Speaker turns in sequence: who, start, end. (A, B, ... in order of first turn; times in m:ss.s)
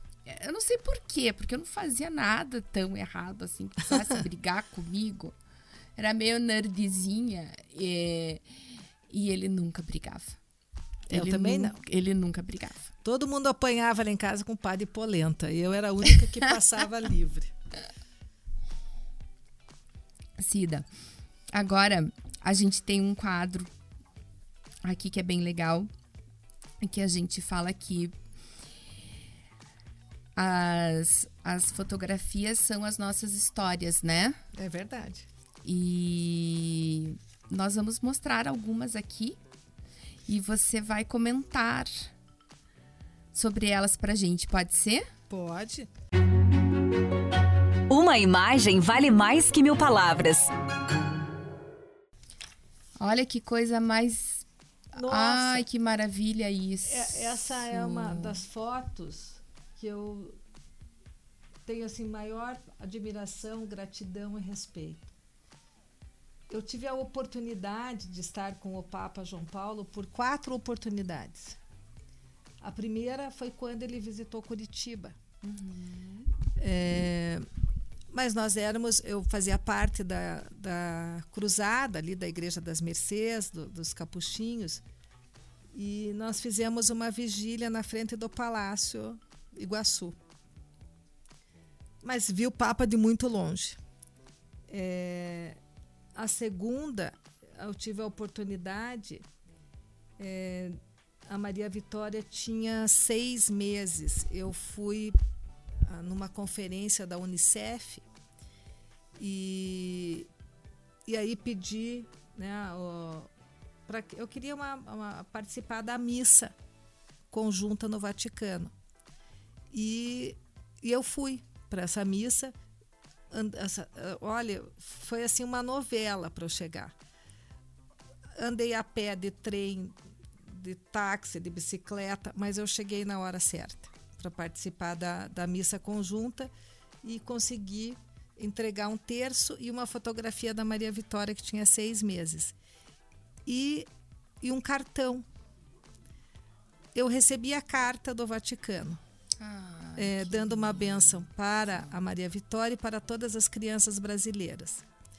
0:00.2-0:05.3 A
0:06.0-0:08.5 A
0:09.1-0:10.4 A
0:11.1-0:11.8 B
0:11.1-0:12.9 A
0:13.0-0:17.5 B
0:20.4-0:20.9 A
0:21.5-0:23.7 A
0:24.8-0:25.9 A
0:26.8-0:28.1 A
0:30.4-0:34.4 A
0:34.5-0:35.3 B
0:35.6-0:39.4 A
0:40.3-0:42.1 A
0:43.3-0:45.1 A
0:45.3-0:45.9 B
0:47.9-0:50.5 C
0:53.0-0:54.4 A
0:54.9-0:55.6 B
0:55.0-0:58.4 A
0:56.8-1:00.4 B
1:01.6-1:05.1 B
1:06.5-1:11.6 B
1:12.6-1:15.2 B
1:15.4-1:16.3 A
1:16.6-1:17.4 B
1:18.1-1:24.8 B
1:25.7-1:30.2 B
1:32.0-1:33.8 B
1:34.7-1:35.6 B
1:36.1-1:39.2 B
1:40.2-1:45.2 B
1:45.8-1:48.0 B
1:49.2-1:50.3 B
1:51.1-1:53.3 B
1:53.9-1:56.5 B
1:57.3-1:58.7 B
1:59.7-2:02.5 B
2:03.3-2:06.9 B
2:08.4-2:16.5 B
2:17.0-2:22.6 B
2:23.4-2:23.9 B
2:24.4-2:25.2 B
2:26.9-2:29.0 B
2:29.4-2:31.9 A
2:30.0-2:34.8 B